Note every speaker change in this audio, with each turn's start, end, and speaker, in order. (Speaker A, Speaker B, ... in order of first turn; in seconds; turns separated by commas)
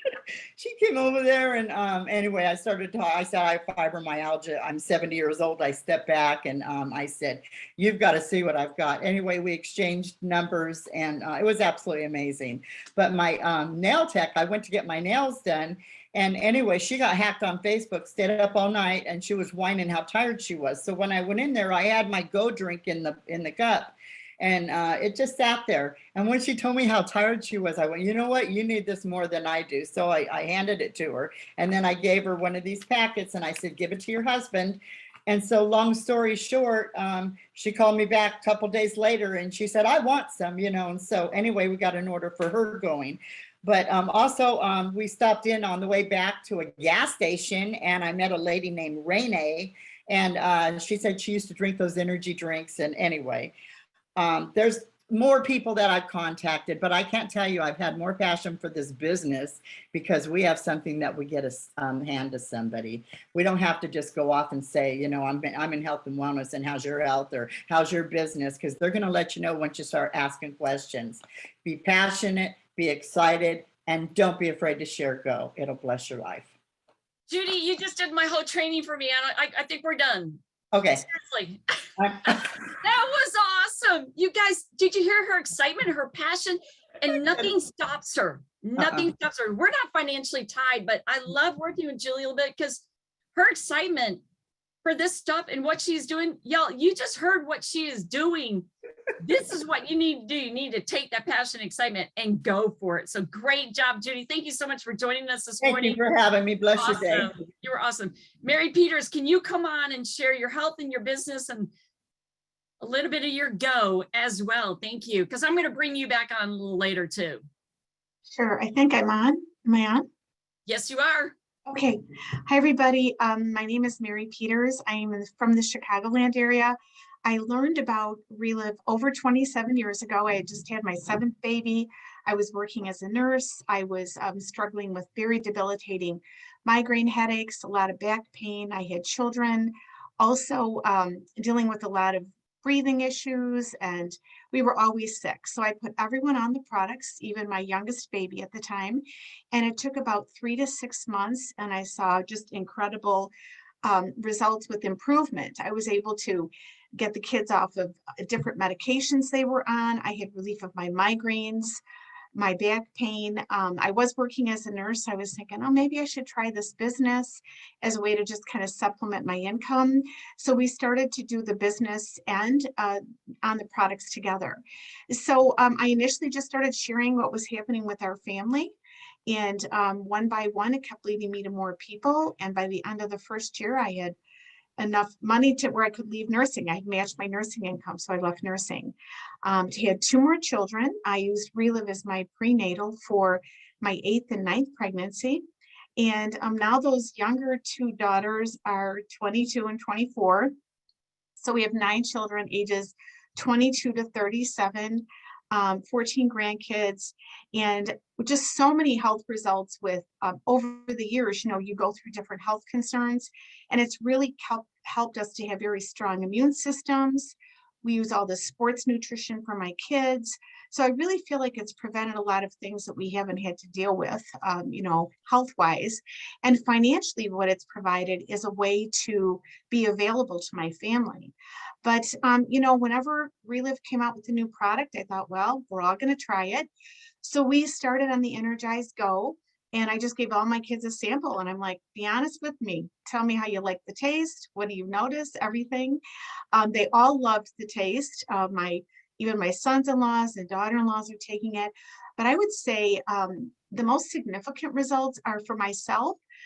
Speaker A: 0.6-53.5, Speaker A: 54.2-76.5, Speaker B: 77.3-80.4, Speaker A: 80.7-81.0, Speaker B: 81.0-81.6, Speaker A: 82.0-82.4, Speaker B: 82.2-92.8, Speaker A: 88.8-89.0, Speaker B: 93.3-94.2, Speaker B: 94.8-98.7, Speaker B: 99.2-106.0, Speaker A: 105.6-107.3, Speaker B: 106.8-111.7, Speaker B: 112.8-117.4, Speaker C: 118.3-120.1, Speaker B: 120.7-121.3, Speaker C: 121.7-153.3, Speaker C: 153.8-161.8, Speaker C: 162.3-184.2, Speaker C: 184.8-195.4, Speaker C: 196.0-200.5, Speaker C: 201.4-236.7, Speaker C: 237.2-246.0, Speaker C: 246.5-256.2